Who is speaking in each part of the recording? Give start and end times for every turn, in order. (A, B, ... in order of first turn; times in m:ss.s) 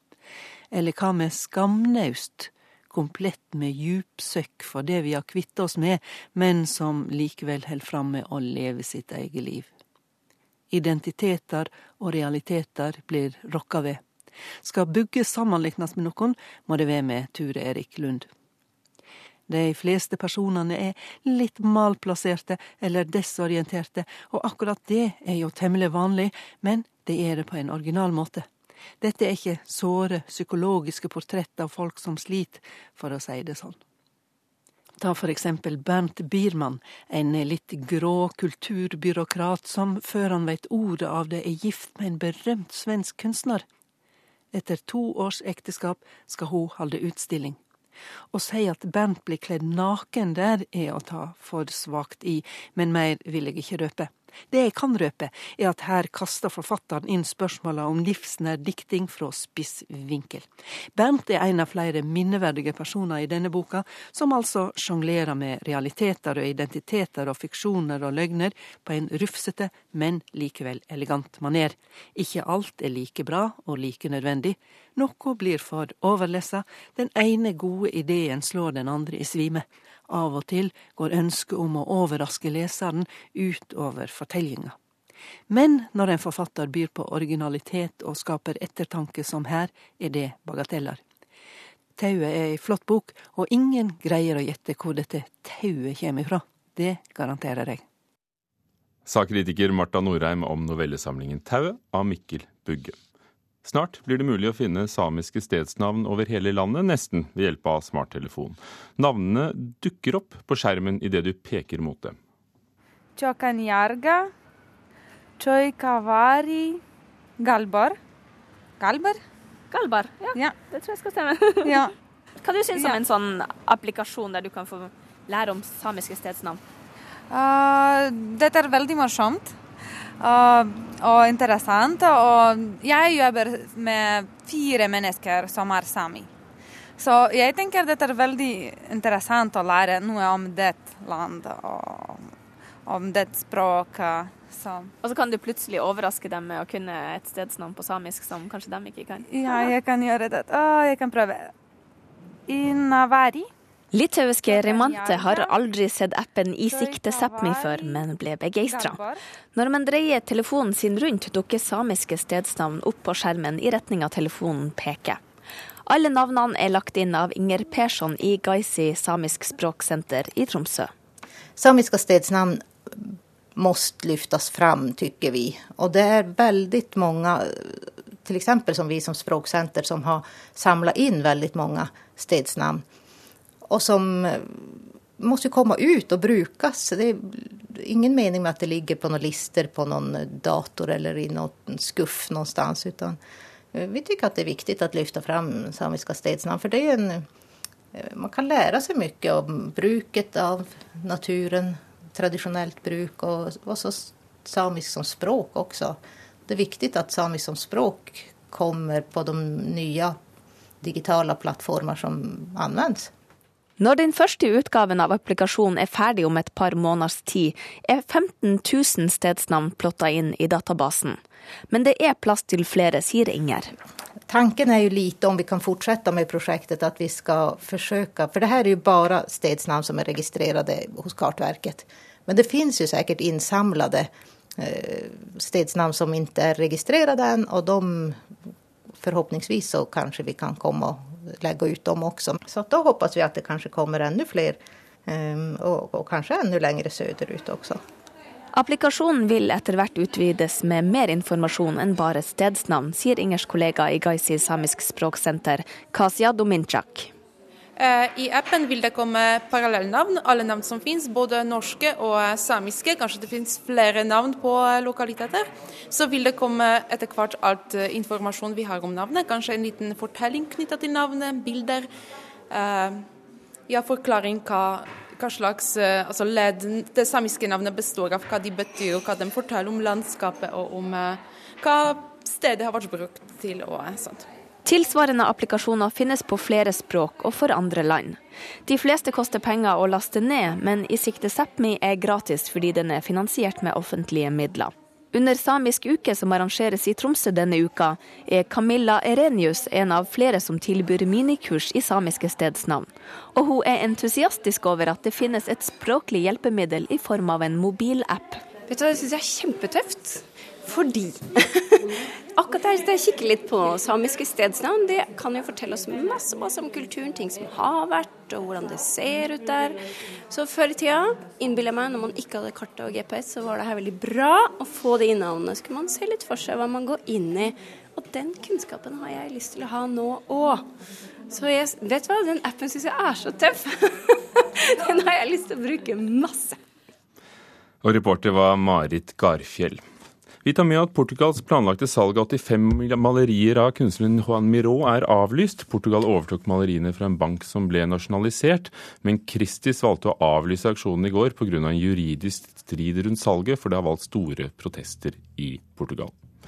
0:00.7-0:09.7 A
0:10.7-0:14.0 A
0:14.6-0:18.3 A
0:19.5-0:28.4 A
0:29.0-0:33.8 A
0:35.0-0:43.6 A
0:44.5-0:47.6 A
0:48.3-1:24.7 A
1:25.5-1:31.0 A
1:32.0-1:37.8 A
1:39.0-1:43.0 B
1:43.6-1:52.2 B
1:53.2-1:54.3 C
1:55.4-1:56.8 C
1:57.4-1:58.0 C
1:58.8-1:59.2 C
1:59.7-2:01.8 D
2:01.6-2:01.9 C
2:02.4-2:06.6 D
2:07.3-2:09.6 C
2:10.2-2:16.3 C
2:17.0-2:22.3 C
2:22.8-2:24.9 C
2:25.0-2:29.7 D
2:29.3-2:31.5 C
2:32.5-2:33.5 C
2:33.9-2:39.0 D
2:34.4-2:35.6 C
2:36.6-2:38.0 C
2:38.6-2:39.2 C
2:39.5-2:45.2 D
2:45.9-2:50.9 D
2:51.6-3:02.8 E
3:03.7-3:13.2 E
3:13.7-3:17.2 E
3:17.9-3:30.2 E
3:30.8-3:33.1 E
3:33.8-3:43.7 D
3:44.3-3:58.2 E
3:59.0-4:07.8 E
4:08.5-4:17.1 D
4:17.8-4:31.9 F
4:32.5-4:33.0 F
4:33.7-4:44.3 F
4:44.6-5:08.4 D
5:08.7-5:19.8 G
5:20.3-5:30.7 G
5:31.3-5:36.6 G
5:37.8-5:39.8 B
5:40.4-5:56.1 B